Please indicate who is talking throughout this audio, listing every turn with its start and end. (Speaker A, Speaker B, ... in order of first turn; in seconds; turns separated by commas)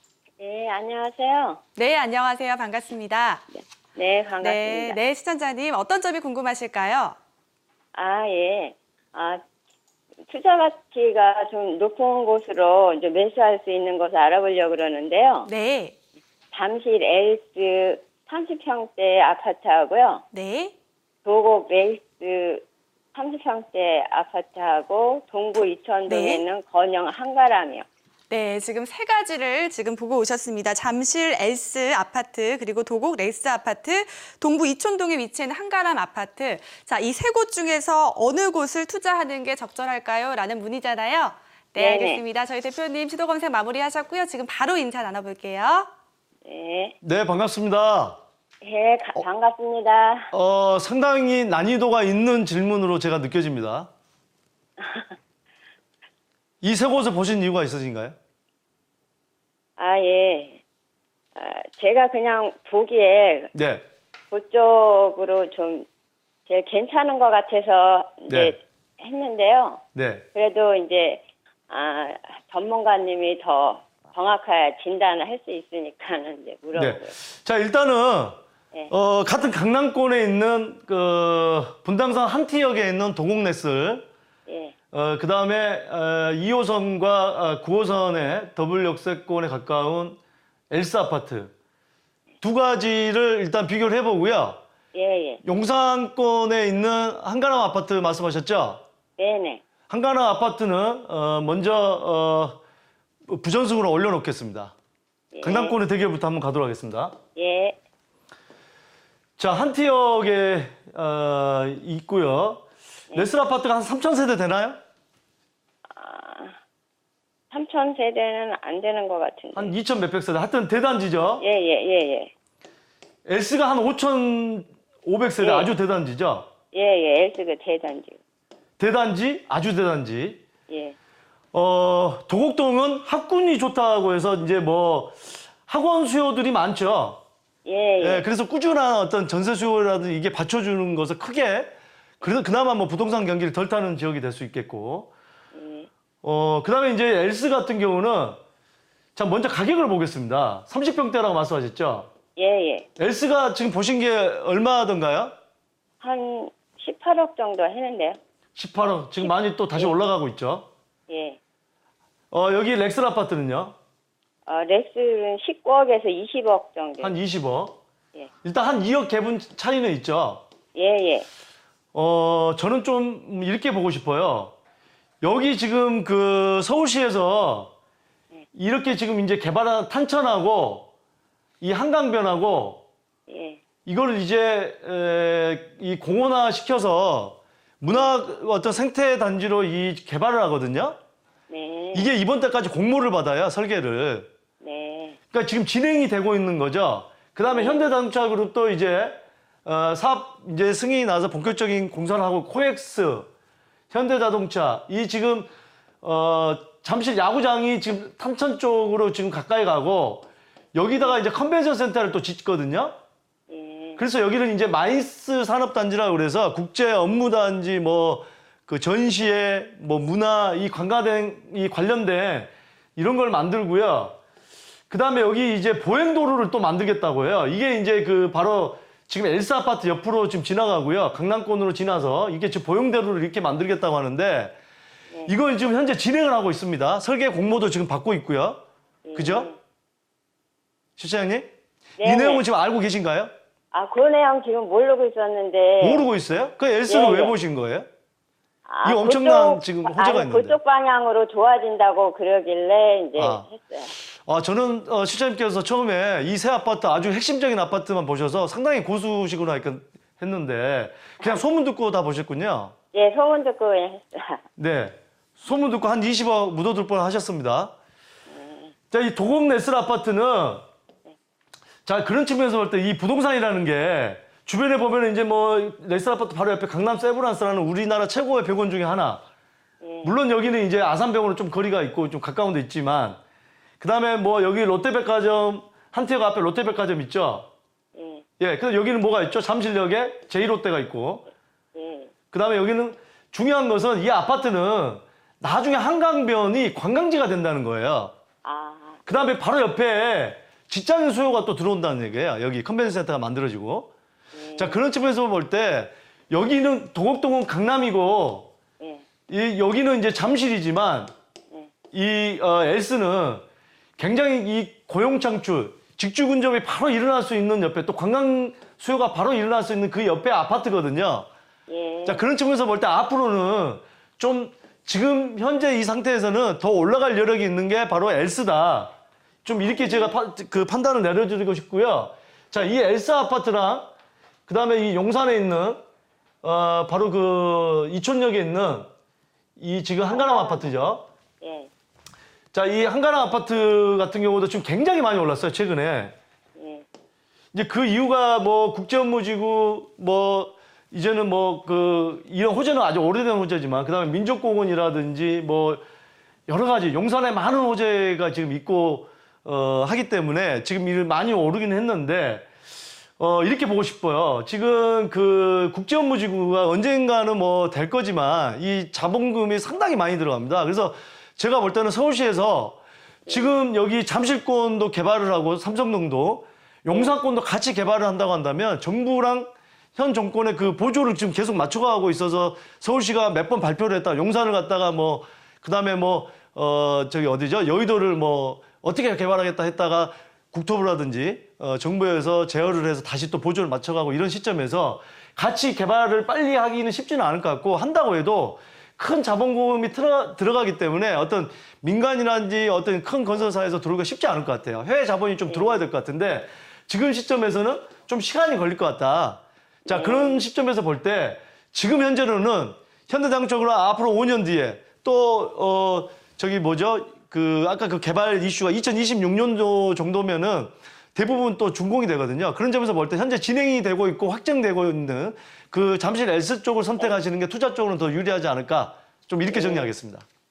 Speaker A: 0.4-1.6, Speaker B: 1.8-3.5, Speaker A: 4.0-5.0, Speaker B: 4.4-7.2, Speaker A: 7.9-9.4, Speaker A: 10.3-15.5, Speaker B: 15.5-15.9, Speaker A: 16.5-20.2, Speaker B: 20.3-20.7, Speaker A: 21.2-27.9, Speaker B: 26.1-26.4, Speaker B: 28.3-45.9, Speaker A: 41.8-42.2, Speaker A: 46.4-47.0, Speaker C: 47.0-48.2, Speaker A: 48.6-50.3, Speaker C: 50.3-53.9, Speaker A: 54.8-55.1, Speaker C: 56.6-58.2, Speaker A: 59.8-60.6, Speaker A: 61.4-63.5, Speaker C: 63.5-63.8, Speaker A: 64.3-65.9, Speaker A: 66.5-69.8, Speaker C: 68.3-68.5, Speaker C: 70.0-70.2, Speaker A: 70.3-77.2, Speaker C: 76.8-78.4, Speaker C: 78.9-84.0, Speaker A: 84.5-84.8, Speaker C: 84.9-90.2, Speaker C: 90.7-91.5, Speaker C: 92.4-94.6, Speaker A: 94.9-95.4, Speaker C: 95.4-98.8, Speaker A: 99.2-99.6, Speaker C: 99.9-102.6, Speaker C: 103.3-104.7, Speaker A: 105.3-105.8, Speaker C: 105.4-107.2, Speaker A: 107.3-107.8, Speaker C: 109.4-114.8, Speaker A: 115.9-116.6, Speaker A: 117.5-119.7, Speaker C: 119.5-121.4, Speaker A: 121.4-122.3, Speaker C: 123.3-126.5, Speaker A: 125.4-125.7, Speaker A: 126.7-128.2, Speaker C: 128.8-130.4, Speaker A: 130.7-131.0, Speaker C: 131.5-137.2, Speaker A: 137.7-138.3, Speaker C: 138.0-145.1, Speaker A: 145.5-145.9, Speaker C: 146.2-148.4, Speaker C: 149.2-152.1, Speaker A: 152.4-152.9, Speaker C: 153.0-155.3, Speaker A: 156.0-158.2, Speaker C: 158.6-160.7, Speaker A: 159.2-159.9, Speaker A: 161.1-161.4, Speaker C: 162.3-163.8, Speaker A: 164.5-167.2, Speaker C: 167.0-167.8, Speaker C: 168.4-170.4, Speaker A: 170.7-171.3, Speaker C: 171.9-174.6, Speaker C: 175.2-177.8, Speaker C: 178.5-180.9, Speaker C: 181.6-182.8, Speaker A: 183.3-183.6, Speaker C: 183.8-191.0, Speaker A: 191.5-192.1, Speaker C: 191.9-194.3, Speaker A: 194.6-195.2, Speaker C: 195.3-203.3, Speaker A: 197.5-197.8, Speaker C: 203.9-205.5, Speaker C: 206.0-212.9, Speaker A: 213.5-214.0, Speaker C: 214.0-224.2, Speaker C: 224.9-234.6, Speaker C: 235.3-238.6, Speaker A: 239.1-239.6, Speaker C: 239.2-239.5, Speaker C: 241.0-241.5, Speaker A: 242.0-242.4, Speaker C: 242.0-243.3, Speaker A: 243.7-246.1, Speaker C: 245.8-247.9, Speaker A: 246.9-247.4, Speaker A: 248.7-254.0, Speaker C: 248.8-250.6, Speaker C: 253.2-253.5, Speaker C: 254.0-262.7, Speaker A: 262.9-264.4, Speaker C: 264.6-267.7, Speaker A: 268.3-268.7, Speaker C: 268.9-270.6, Speaker C: 271.9-279.2, Speaker A: 279.8-280.1, Speaker C: 280.0-283.2, Speaker C: 283.8-287.5, Speaker A: 287.9-288.2, Speaker C: 288.4-291.3, Speaker A: 291.8-292.1, Speaker C: 292.3-298.1, Speaker A: 298.4-299.0, Speaker C: 299.1-303.9, Speaker A: 304.3-304.8, Speaker C: 304.6-308.5, Speaker A: 308.8-309.1, Speaker C: 309.3-311.1, Speaker C: 311.9-313.4, Speaker C: 314.0-321.3, Speaker A: 321.7-322.2, Speaker C: 322.1-328.9, Speaker C: 329.4-333.9, Speaker A: 329.6-330.2, Speaker C: 334.5-335.8, Speaker C: 336.4-338.9, Speaker C: 339.6-341.1, Speaker A: 340.1-340.8, Speaker A: 341.4-341.7, Speaker C: 342.5-346.1, Speaker A: 346.6-346.9, Speaker C: 347.5-355.8, Speaker C: 356.5-362.5, Speaker C: 363.2-430.3, Speaker A: 373.3-373.5, Speaker A: 376.9-377.2, Speaker A: 405.5-405.8, Speaker A: 409.9-410.4, Speaker A: 429.5-429.9